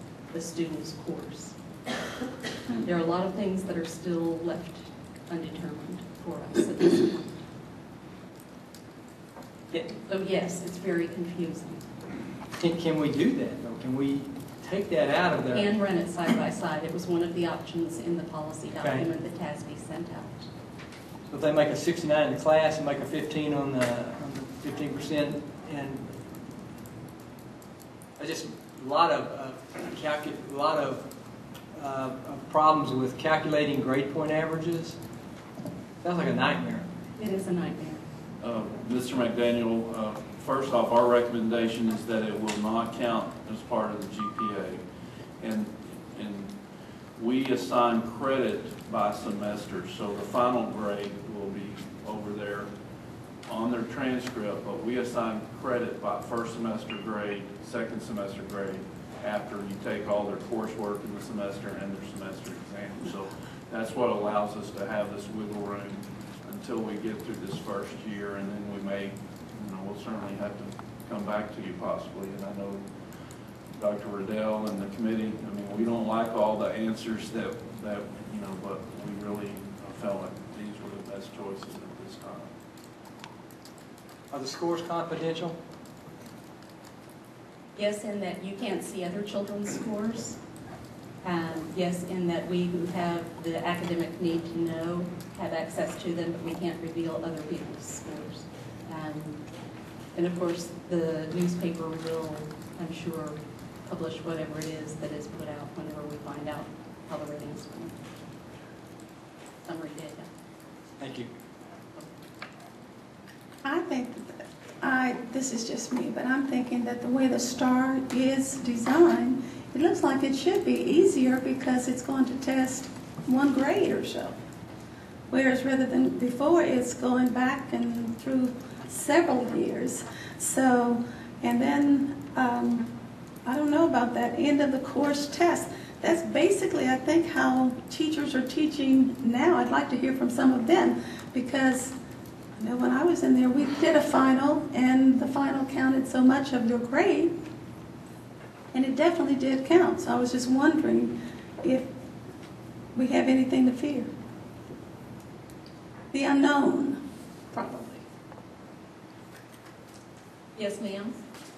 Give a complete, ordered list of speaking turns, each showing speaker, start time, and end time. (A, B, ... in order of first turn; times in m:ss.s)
0:00.3-0:01.6 A
0:02.7-0:07.4 A
0:09.7-0:11.8 A
0:12.5-0:15.7 B
0:15.5-0:20.5 A
0:18.8-0:19.0 B
0:21.3-0:26.0 B
0:28.2-0:31.0 B
0:31.7-0:35.0 B
0:36.0-0:36.8 B
0:37.2-0:38.0 A
0:38.4-0:44.8 C
0:45.4-0:46.5 C
0:47.2-0:52.7 C
0:53.5-1:12.8 C
1:13.8-1:22.5 C
1:24.3-1:25.6 B
1:27.7-1:30.4 A
1:31.2-1:39.4 A
1:40.1-1:48.0 A
1:49.6-1:50.3 A
1:51.0-1:51.3 B
1:53.6-2:04.3 D
2:05.3-2:12.8 D
2:13.4-2:21.9 D
2:22.6-2:27.3 D
2:28.7-2:31.9 D
2:32.9-2:34.1 D
2:36.1-2:37.0 D
2:37.5-2:38.0 D
2:40.6-2:41.2 A